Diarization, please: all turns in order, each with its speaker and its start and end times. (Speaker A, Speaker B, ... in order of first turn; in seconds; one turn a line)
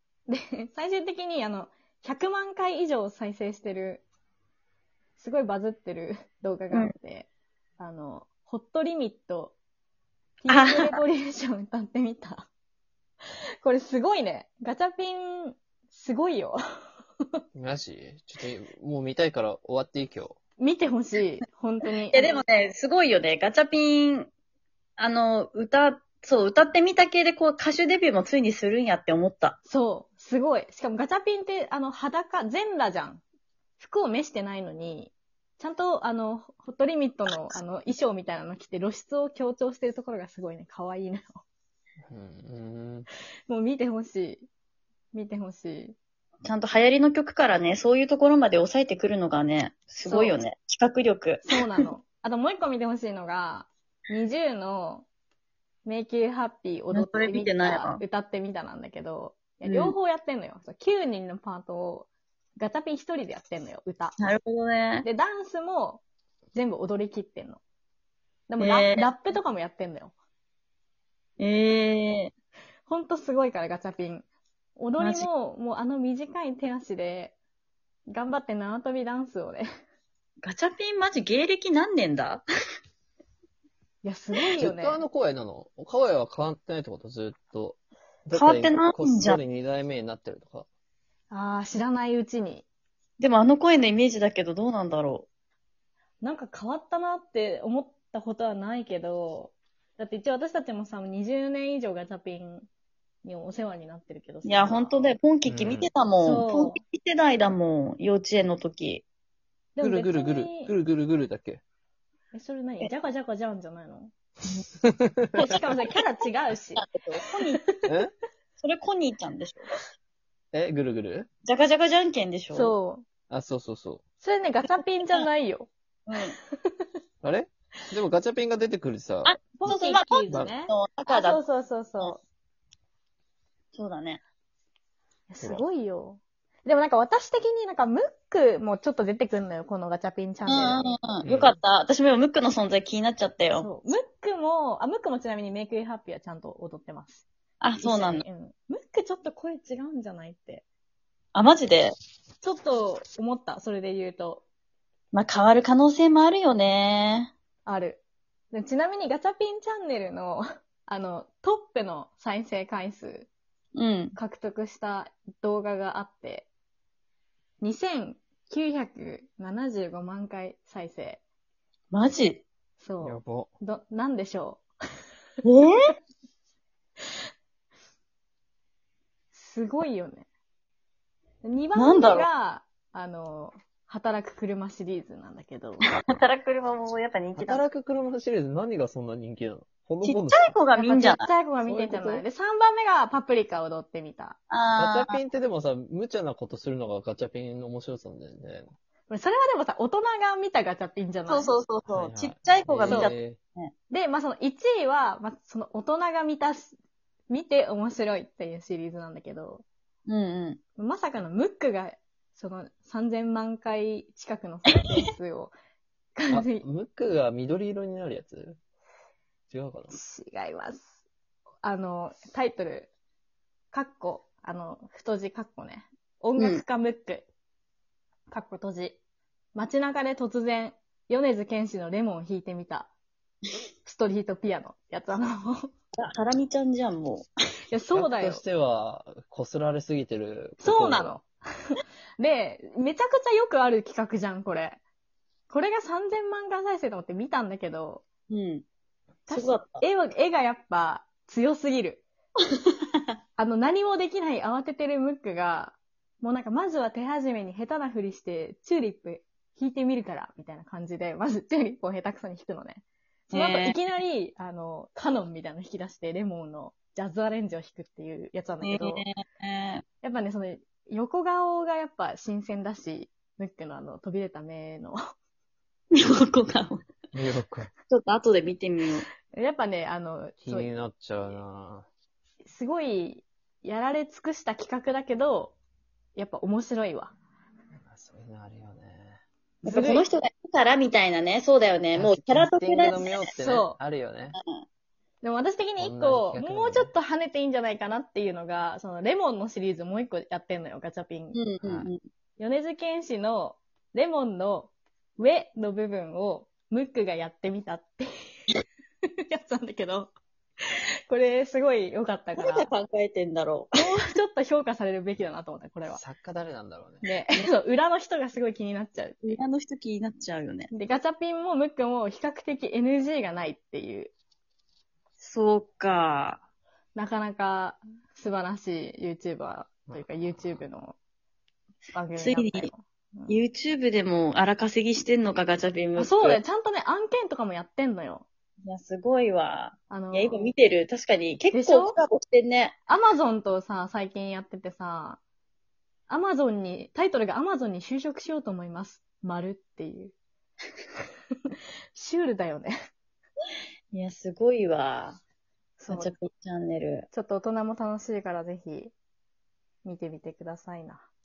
Speaker A: 0.3-4.0
Speaker A: 5.2-9.6
Speaker A: 10.4-12.5
Speaker B: 10.5-11.0
Speaker A: 13.6-16.6
Speaker C: 17.6-20.4
Speaker A: 20.6-22.4
Speaker B: 22.1-24.3
Speaker B: 25.0-29.6
Speaker A: 29.7-33.2
Speaker A: 33.8-41.4
Speaker C: 42.1-43.1
Speaker A: 43.5-44.5
Speaker A: 45.1-46.0
Speaker B: 46.4-51.9
Speaker A: 50.0-50.4
Speaker A: 51.5-55.1
Speaker A: 55.9-64.2
Speaker B: 56.9-58.0
Speaker B: 59.6-60.0
Speaker B: 64.2-65.1
Speaker A: 65.0-66.0
Speaker A: 66.5-67.6
Speaker A: 68.5-70.1
Speaker B: 68.6-69.1
Speaker B: 71.4-72.3
Speaker A: 72.9-77.4
Speaker B: 75.0-75.3
Speaker A: 78.1-79.7
Speaker B: 80.4-82.4
Speaker A: 84.0-85.0
Speaker C: 84.6-90.7
Speaker B: 88.3-89.4
Speaker A: 91.3-92.7
Speaker B: 93.2-95.3
Speaker A: 96.2-102.7
Speaker A: 103.2-105.1
Speaker B: 104.5-109.0
Speaker C: 105.5-105.9
Speaker A: 106.2-106.8
Speaker A: 109.8-110.7
Speaker C: 109.8-111.6
Speaker A: 112.3-114.1
Speaker C: 114.8-115.4
Speaker A: 115.3-116.9
Speaker B: 116.8-117.6
Speaker A: 117.6-117.9
Speaker C: 117.9-118.1
Speaker B: 118.6-119.7
Speaker C: 120.5-121.3
Speaker B: 121.5-122.7
Speaker A: 122.5-123.0
Speaker C: 123.3-124.0
Speaker A: 124.2-125.7
Speaker B: 126.1-126.4
Speaker A: 126.5-126.9
Speaker C: 127.2-129.8
Speaker B: 129.2-131.4
Speaker A: 129.6-132.2
Speaker C: 130.3-130.5
Speaker B: 133.7-134.2
Speaker A: 135.3-141.0
Speaker B: 140.5-143.7
Speaker C: 141.2-141.6
Speaker A: 143.6-147.3
Speaker B: 147.6-148.2
Speaker A: 147.8-150.7
Speaker B: 151.3-151.9
Speaker A: 152.4-154.4
Speaker B: 155.1-157.3
Speaker A: 157.7-158.0
Speaker A: 158.5-163.3
Speaker B: 163.8-164.2
Speaker A: 164.2-166.5
Speaker A: 167.6-171.2
Speaker B: 171.9-172.4
Speaker A: 172.8-174.6
Speaker C: 173.0-173.5
Speaker B: 175.4-175.7
Speaker A: 179.3-180.3
Speaker A: 181.4-186.0
Speaker B: 181.8-182.3
Speaker B: 185.9-187.6
Speaker C: 187.4-190.6
Speaker B: 190.0-191.3
Speaker A: 190.8-194.4
Speaker C: 191.6-192.2
Speaker B: 194.5-195.2
Speaker C: 194.8-198.7
Speaker A: 199.1-201.5
Speaker B: 201.3-203.7
Speaker C: 201.9-203.4
Speaker A: 202.9-203.1
Speaker A: 203.9-206.8
Speaker A: 207.3-209.7
Speaker B: 210.1-210.6
Speaker A: 210.8-215.5
Speaker B: 214.7-215.0
Speaker A: 216.2-216.6
Speaker C: 216.3-218.6
Speaker C: 219.5-219.9
Speaker A: 219.9-220.9
Speaker A: 221.6-222.9
Speaker A: 223.7-227.3
Speaker B: 226.4-226.6
Speaker A: 228.3-229.0
Speaker A: 229.6-232.9
Speaker A: 233.8-235.7
Speaker B: 236.0-237.2
Speaker A: 237.7-238.4
Speaker C: 237.9-241.2
Speaker A: 240.6-244.8
Speaker A: 245.5-248.0
Speaker B: 248.3-248.6
Speaker A: 249.3-252.0
Speaker B: 249.3-249.8
Speaker A: 253.4-269.0
Speaker B: 263.3-263.8
Speaker B: 268.6-269.8
Speaker A: 270.0-275.0
Speaker B: 275.9-276.8
Speaker C: 277.1-277.7
Speaker B: 277.9-279.1
Speaker A: 279.3-280.8
Speaker C: 280.4-281.9
Speaker A: 282.4-285.6
Speaker A: 286.2-287.1
Speaker C: 287.8-289.2
Speaker A: 289.6-290.1
Speaker B: 289.6-293.3
Speaker C: 291.9-294.4
Speaker A: 293.3-293.8
Speaker B: 294.3-294.6
Speaker A: 295.2-301.4
Speaker C: 295.8-296.9
Speaker B: 301.3-302.0
Speaker C: 301.6-301.9
Speaker A: 302.4-308.1
Speaker A: 309.3-310.1
Speaker A: 310.6-312.7
Speaker B: 312.4-313.8
Speaker A: 313.8-316.0
Speaker C: 315.9-317.0
Speaker A: 317.0-319.4
Speaker B: 319.2-320.7
Speaker A: 320.7-324.1
Speaker B: 325.2-326.4
Speaker A: 326.9-330.9
Speaker C: 329.9-330.6
Speaker A: 331.9-333.4
Speaker B: 332.2-332.7
Speaker B: 333.3-336.4
Speaker A: 335.9-338.3
Speaker B: 338.6-342.8
Speaker A: 339.9-340.5
Speaker A: 341.5-342.0
Speaker A: 342.9-345.2
Speaker A: 346.1-350.1
Speaker A: 351.9-352.7
Speaker B: 353.9-355.2
Speaker A: 355.8-356.1
Speaker B: 355.9-357.1
Speaker A: 357.1-358.9
Speaker A: 359.8-361.1